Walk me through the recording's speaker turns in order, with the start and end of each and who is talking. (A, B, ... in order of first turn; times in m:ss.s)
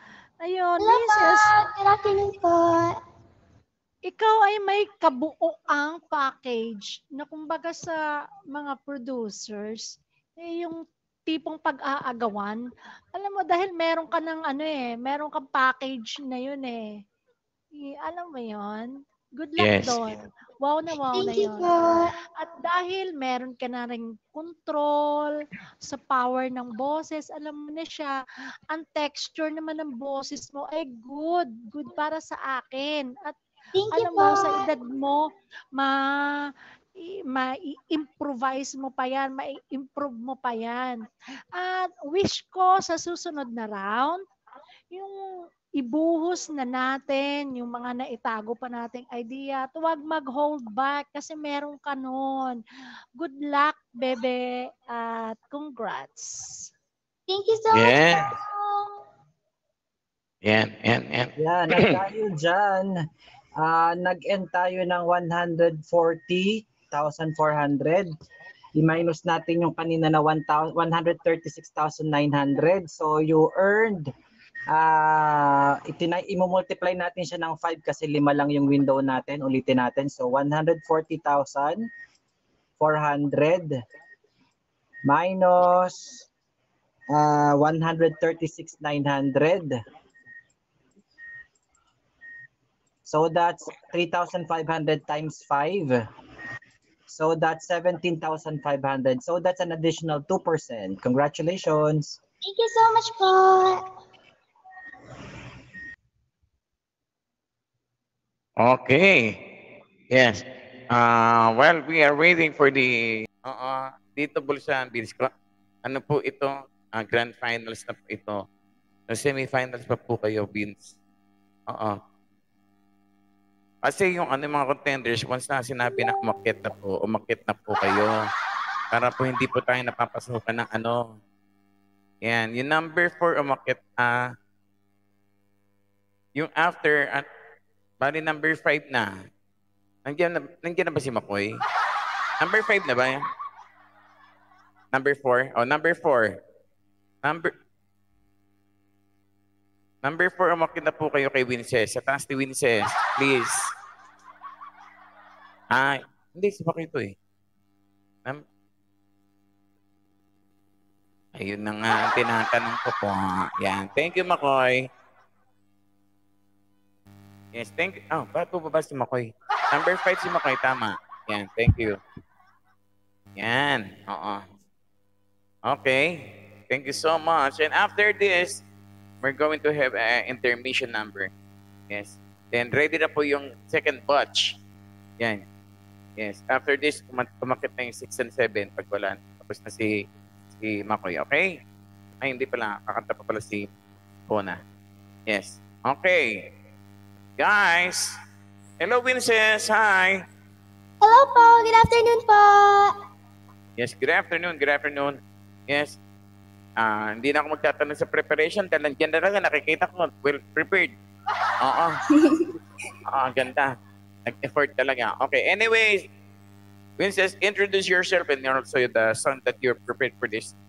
0:00.4-0:01.5 A
0:00.8-0:03.0 B
0:04.1-0:08.0 A
0:08.5-0:16.8 A
0:17.8-0:21.7 A
0:19.6-0:20.2 C
0:21.1-0:22.1 B
0:22.4-0:28.2 A
0:28.7-0:33.4 A
0:33.8-0:34.6 B
0:33.9-0:36.5 A
0:37.0-0:41.0 A
0:41.5-0:44.2 A
0:44.9-0:52.6 A
0:53.2-0:56.7 A
0:57.3-0:59.0 B
0:57.7-0:58.3 C
1:00.4-1:01.9 C
1:01.4-1:02.9 D
1:03.6-1:08.1 D
1:08.8-1:14.1 D
1:14.7-1:21.9 D
1:22.8-1:23.8 D
1:25.1-1:26.3 D
1:27.1-1:29.8 D
1:33.1-1:36.0 D
1:37.1-1:42.2 D
1:42.4-1:43.8 B
1:48.6-1:49.4 C
1:50.1-1:55.3 C
1:55.8-1:58.5 C
1:59.1-2:00.9 C
2:01.7-2:02.0 C
2:03.8-2:08.1 C
2:08.9-2:11.2 C
2:12.2-2:14.3 C
2:16.4-2:17.3 C
2:18.0-2:19.2 C
2:20.0-2:21.6 C
2:22.4-2:23.3 C
2:24.9-2:26.4 C
2:27.2-2:27.5 C
2:30.0-2:33.7 C
2:35.7-2:37.2 C
2:41.4-2:44.9 C
2:47.5-2:52.0 C
2:53.4-2:54.4 C
2:55.7-2:58.6 C
2:59.2-3:01.3 C
3:01.9-3:04.5 C
3:06.2-3:10.0 C
3:10.6-3:11.5 C
3:12.2-3:13.7 C
3:14.3-3:14.6 C
3:15.3-3:16.5 C
3:17.4-3:18.1 C
3:18.8-3:20.2 C
3:21.0-3:22.9 B
3:23.8-3:26.0 C
3:26.8-3:30.9 C
3:31.6-3:32.0 C
3:32.2-3:32.5 B
3:33.1-3:33.8 C
3:34.3-3:36.1 C
3:37.0-3:40.5 C